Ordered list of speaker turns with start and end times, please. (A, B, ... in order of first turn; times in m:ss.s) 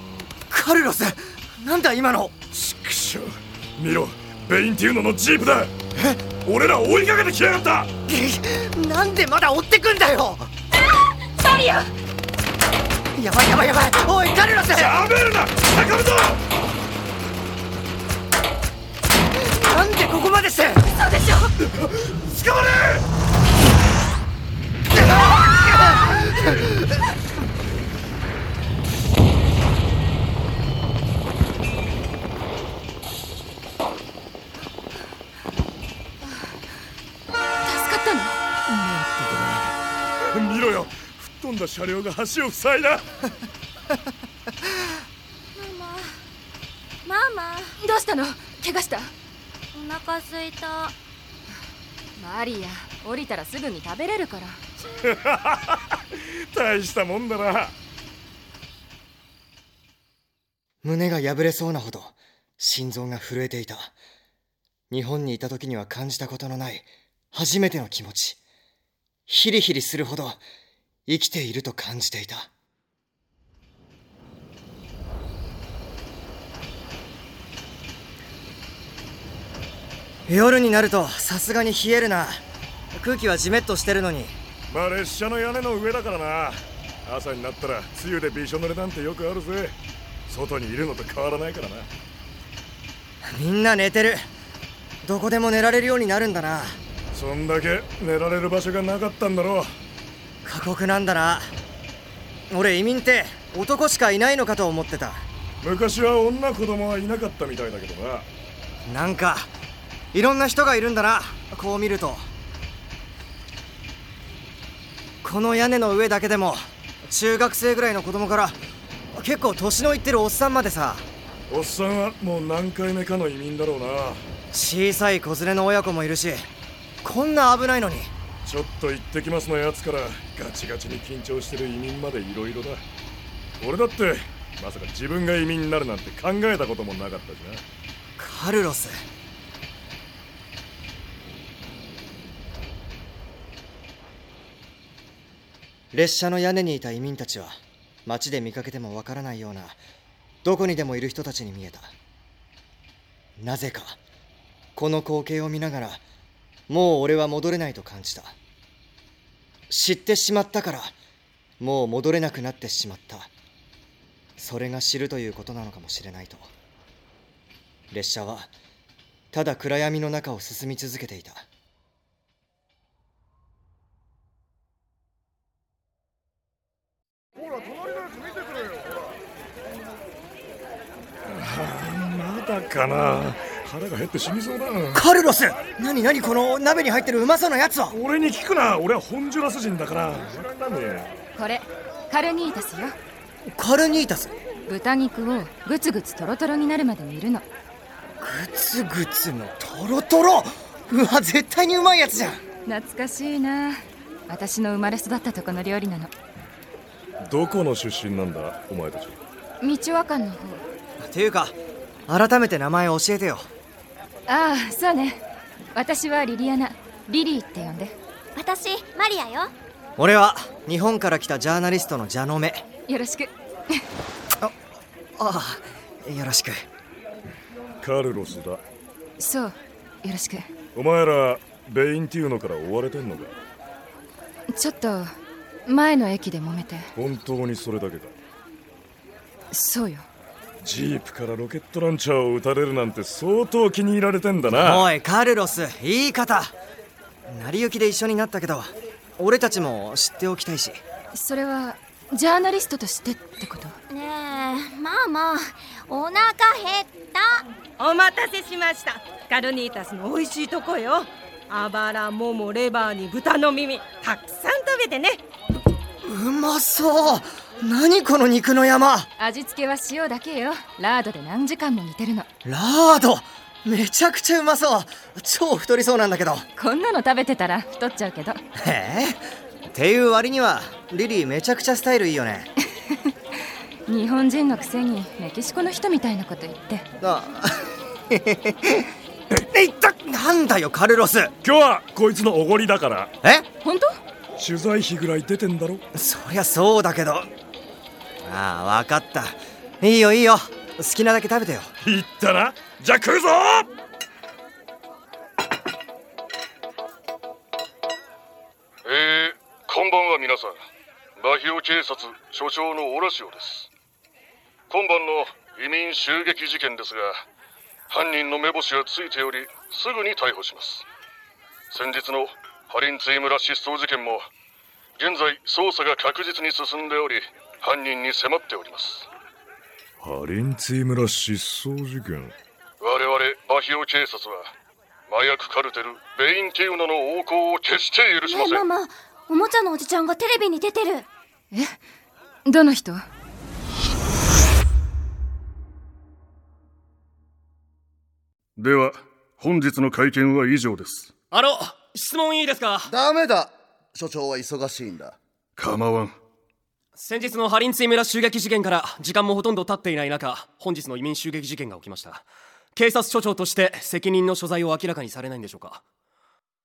0:00.5-0:02.3 A
0:02.5-0:05.7 B
0:06.4-0:07.9 B
0:08.0-0:10.5 A
0:11.4-0:11.8 C
0:13.1-0:15.0 A
0:14.7-0:16.4 B
0:19.4-0:20.9 A
0:21.1-0:21.5 C
0:37.6-0:38.4 C
0:38.8-0:39.7 B
0:40.3-0:43.1 B
0:45.6-0:46.2 D
0:47.0-0:47.7 D
0:47.8-0:49.1 C
0:49.7-0:50.9 D
0:52.2-0:54.6 C
0:55.0-0:57.7 B
1:00.8-1:03.9 A
1:04.9-1:08.4 A
1:09.3-1:10.4 A
1:11.1-1:12.5 A
1:20.3-1:22.4 A
1:22.9-1:24.4 A
1:24.7-1:29.8 B
1:30.3-1:31.9 B
1:33.2-1:34.2 A
1:35.0-1:36.8 A
1:37.1-1:39.7 B
1:40.4-1:41.5 A
1:42.5-1:45.2 A
1:45.6-1:48.2 B
1:48.8-1:49.5 A
1:50.1-1:52.2 A
1:55.2-1:58.6 A
1:59.1-2:01.0 A
2:01.5-2:04.2 B
2:04.5-2:06.5 A
2:07.0-2:08.1 A
2:08.4-2:12.8 B
2:13.6-2:17.6 B
2:18.2-2:19.0 A
2:25.9-2:29.8 A
2:30.4-2:31.9 A
2:33.4-2:34.0 A
2:34.7-2:36.0 A
2:36.7-2:38.4 A
2:39.7-2:40.9 A
2:41.6-2:43.3 A
2:44.4-2:46.5 A
2:47.9-2:48.5 A
2:49.3-2:51.4 A
3:01.2-3:05.0 B
3:04.9-3:08.0 A
3:07.9-3:11.1 B
3:11.4-3:13.0 C
3:13.5-3:14.3 A
3:14.7-3:17.4 C
3:18.2-3:22.4 A
3:22.6-3:26.1 C
3:27.2-3:29.2 B
3:29.6-3:30.6 C
3:31.0-3:31.6 A
3:32.1-3:33.5 A
3:34.3-3:35.2 C
3:35.7-3:38.0 C
3:38.4-3:39.5 D
3:40.0-3:42.6 A
3:42.9-3:43.8 C
3:45.2-3:46.6 A
3:47.8-3:48.6 B
3:49.2-3:50.5 C
3:50.7-3:53.3 B
3:54.5-3:55.1 C
3:55.6-3:56.9 C
3:56.9-3:58.1 B
3:59.5-4:00.0 C
4:00.6-4:04.9 B
4:04.5-4:06.5 A
4:07.3-4:10.8 A
4:11.1-4:13.8 C
4:13.9-4:17.4 D
4:17.8-4:25.2 E
4:26.0-4:29.1 A
4:29.2-4:32.3 C
4:32.4-4:36.4 A
4:36.6-4:38.4 C
4:38.6-4:42.5 A
4:43.9-4:46.9 C
4:47.0-4:51.3 A
4:51.4-4:53.1 B
4:53.6-4:53.9 C
4:54.4-4:55.8 B
4:55.9-4:57.3 A
4:58.2-5:01.7 A
5:01.8-5:03.7 B
5:08.8-5:10.6 F
5:11.2-5:13.7 F
5:14.7-5:17.2 F
5:17.9-5:20.8 F
5:21.7-5:24.2 F
5:25.0-5:29.1 F
5:30.0-5:32.3 B
5:32.8-5:34.5 F
5:35.1-5:38.7 F
5:38.3-5:41.0 D
5:41.5-5:41.8 C
5:42.4-5:43.0 C
5:48.6-5:51.1 F
5:51.3-5:52.9 G
5:52.8-5:55.2 H
5:55.6-5:56.1 F
5:57.0-6:02.2 G
6:02.8-6:05.8 G